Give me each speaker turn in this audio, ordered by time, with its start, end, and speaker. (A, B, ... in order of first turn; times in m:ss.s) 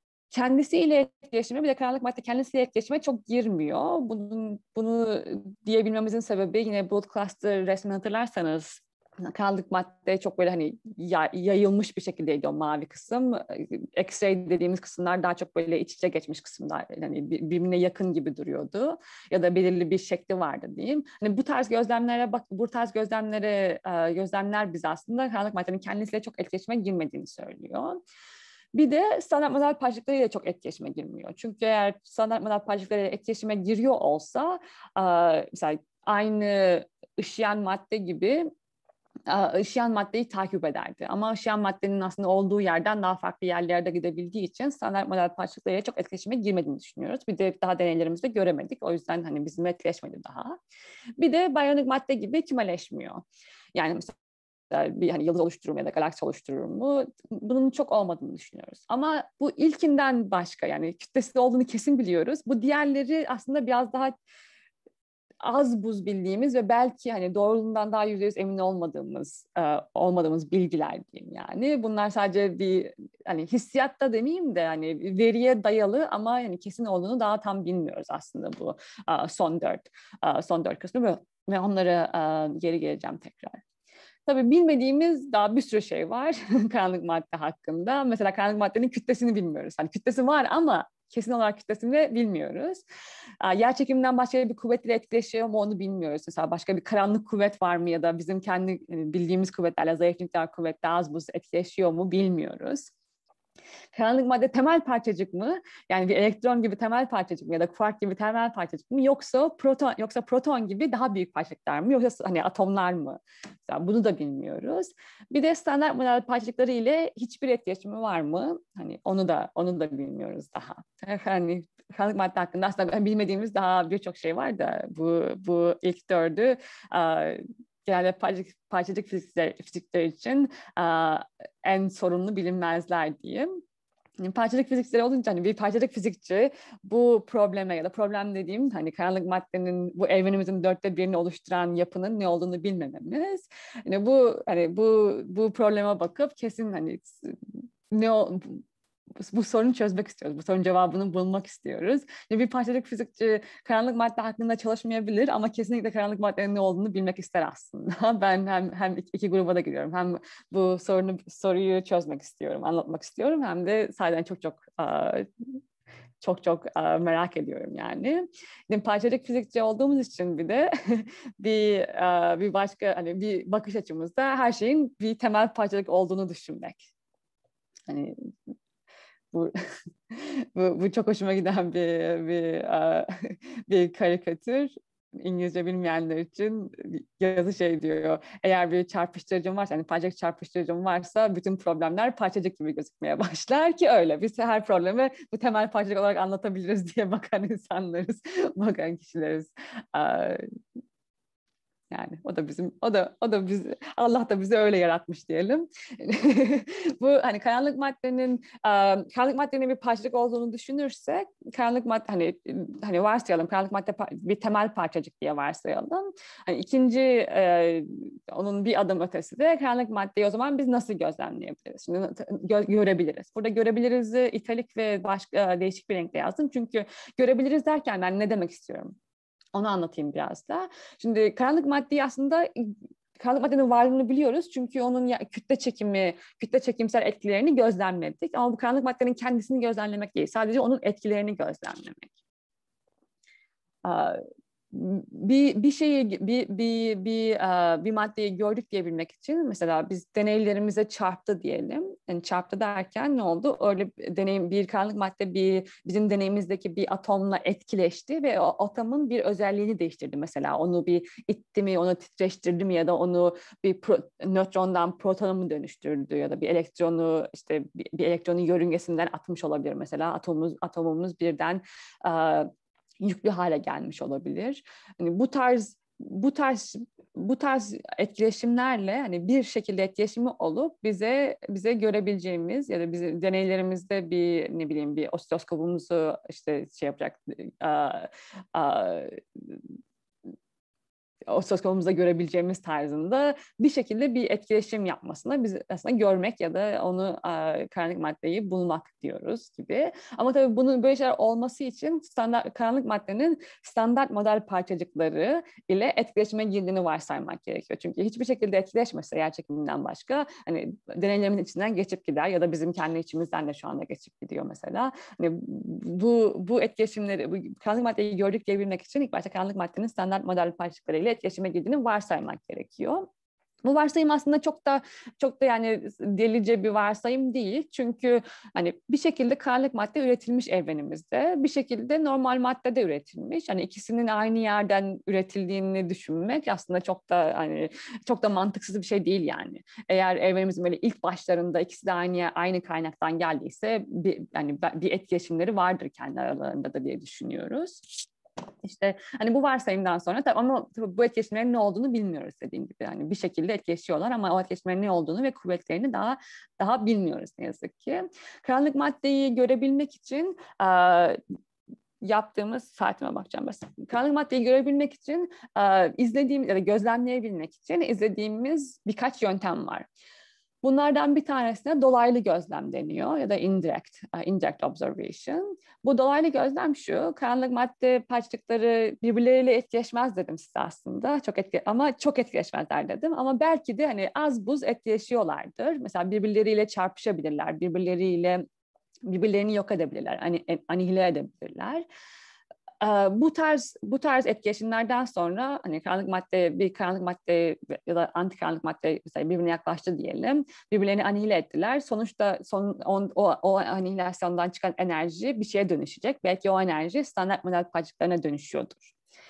0:00.3-0:28.0 A
0:28.7-0:38.5 A
0:39.3-0:50.6 A
0:51.2-0:53.2 A
0:53.8-0:54.1 A
0:54.7-1:04.1 A
1:05.4-1:23.6 A
1:24.3-1:32.8 A
1:33.4-1:42.9 A
1:43.9-2:13.6 A
2:14.2-2:27.4 A
2:27.9-2:28.6 A
2:29.2-2:45.3 A
2:46.2-2:56.9 A
2:57.9-2:58.2 A
3:00.1-3:20.4 A
3:21.9-3:49.0 A
3:49.5-4:02.1 A
4:03.8-4:04.2 A
4:04.7-4:32.5 A
4:33.0-4:49.6 A
4:51.3-5:23.1 A
5:23.6-5:48.0 A
5:48.6-6:01.2 A
6:02.0-6:09.9 A
6:10.6-6:28.4 A
6:29.1-6:31.8 A
6:32.8-6:48.9 A